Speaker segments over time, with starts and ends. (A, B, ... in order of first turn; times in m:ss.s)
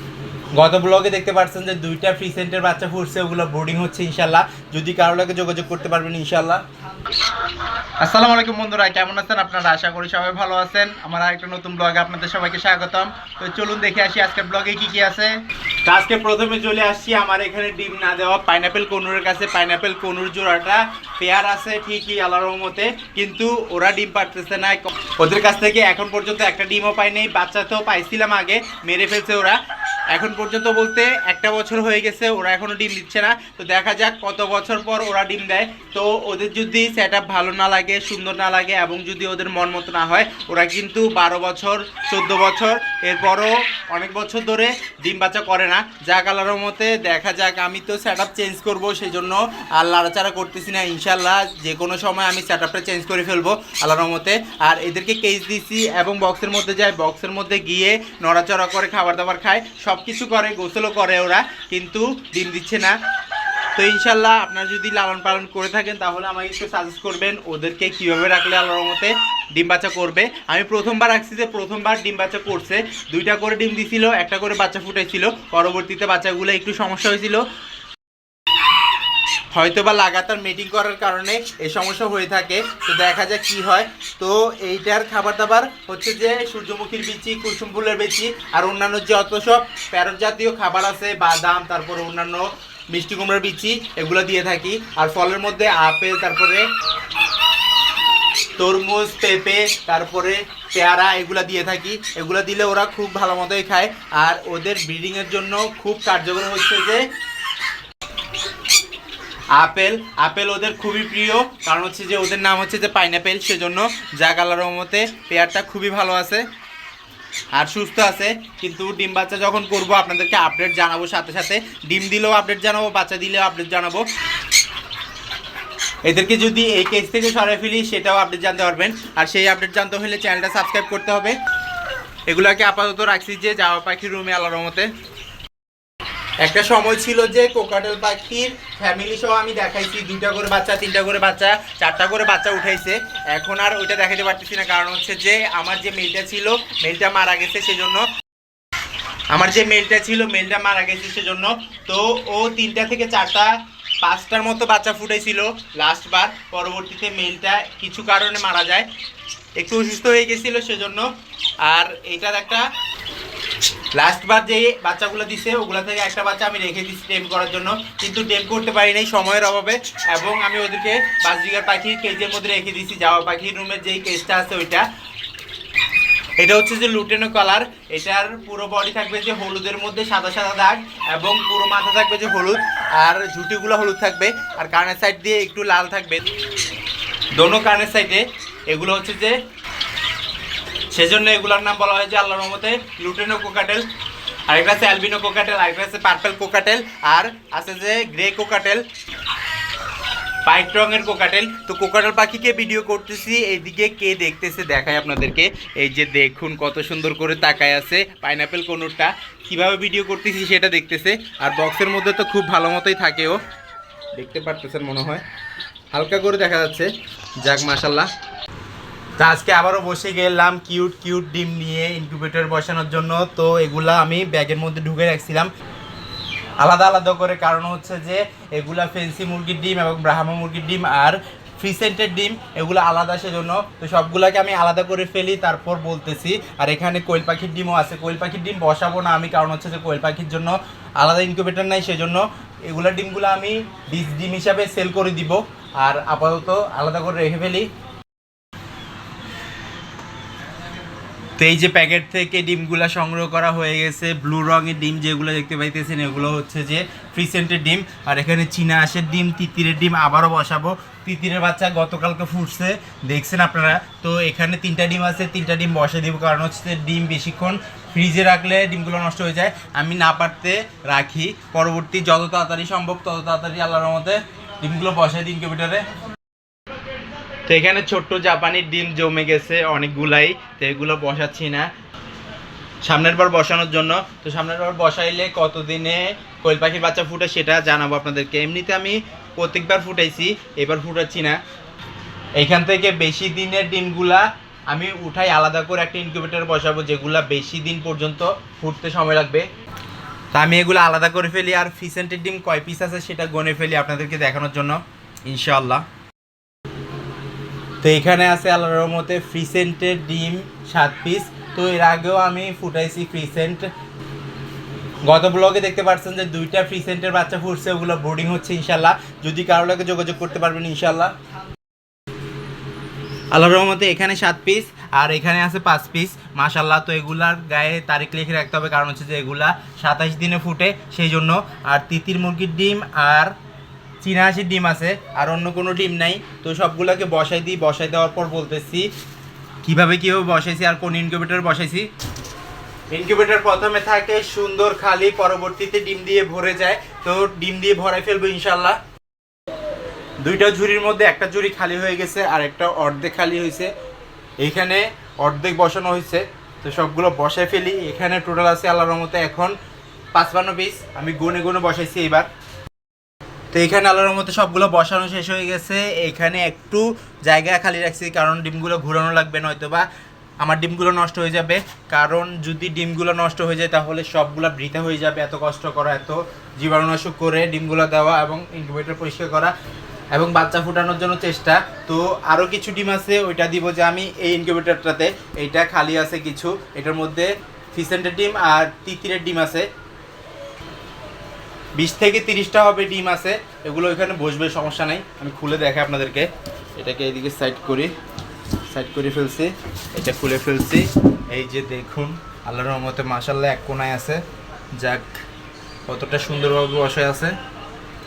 0:00.5-0:06.6 A
0:08.0-0:15.3 A
0:15.8-0:29.6 A
0:30.1-1:02.9 A
1:03.8-1:17.4 A
1:19.5-1:36.6 A
1:38.6-1:47.0 A
1:49.5-1:56.4 A
1:57.5-2:04.0 A
2:06.0-2:11.4 A
2:12.3-2:14.9 A
2:16.4-2:28.0 A
2:29.3-2:38.9 A
2:39.6-2:41.1 A
2:41.6-2:42.6 A
2:43.9-2:54.8 A
2:56.4-3:06.2 A
3:07.4-3:09.4 A
3:10.9-3:13.8 A
3:14.5-3:18.8 A
3:20.4-3:33.4 A
3:34.1-3:35.2 A
3:35.9-3:38.1 A
3:39.2-3:45.5 A
3:46.6-4:07.7 A
4:11.4-4:35.8 A
4:37.5-4:41.7 A
4:42.8-4:51.4 A
4:52.4-4:59.4 A
5:00.3-5:05.8 A
5:07.8-5:13.7 A
5:15.1-5:21.1 A
5:23.3-5:33.3 A
5:34.0-5:38.9 A
5:39.6-5:41.9 A
5:42.9-5:48.8 A
5:50.2-5:53.7 A
5:54.4-5:59.5 A
6:00.1-6:02.3 A
6:03.5-6:09.8 A
6:10.4-6:19.5 A
6:20.1-6:29.7 A
6:31.8-6:37.9 A
6:38.7-6:44.2 A
6:44.8-6:45.1 A
6:45.9-6:47.3 A